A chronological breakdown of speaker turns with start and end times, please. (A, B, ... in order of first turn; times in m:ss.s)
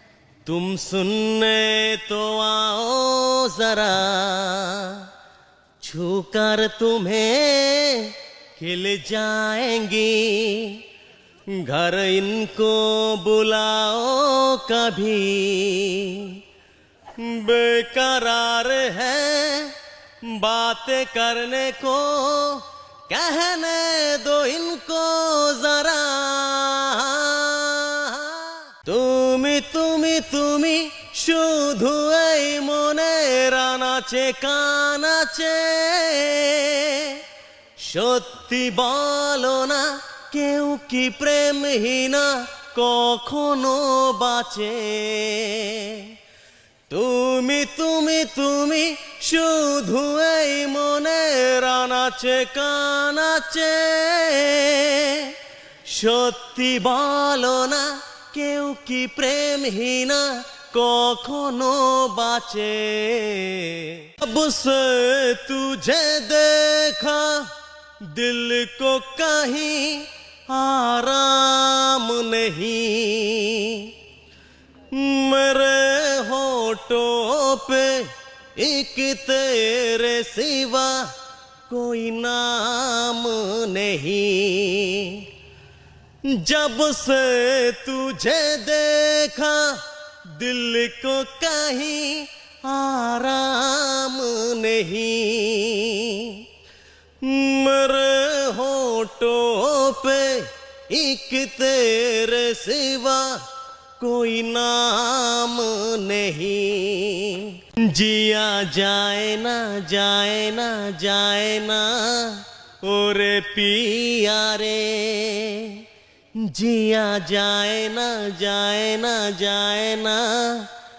0:00.4-0:05.1 A
0:05.8-0:10.8 A
0:11.6-0:16.4 A
0:17.2-0:37.2 A
0:37.8-0:46.1 A
0:46.9-1:13.9 A
1:14.9-1:21.1 A
1:21.7-1:25.3 A
1:26.2-1:36.4 A
1:37.2-1:43.4 A
1:44.0-1:55.8 A
1:56.4-2:00.7 A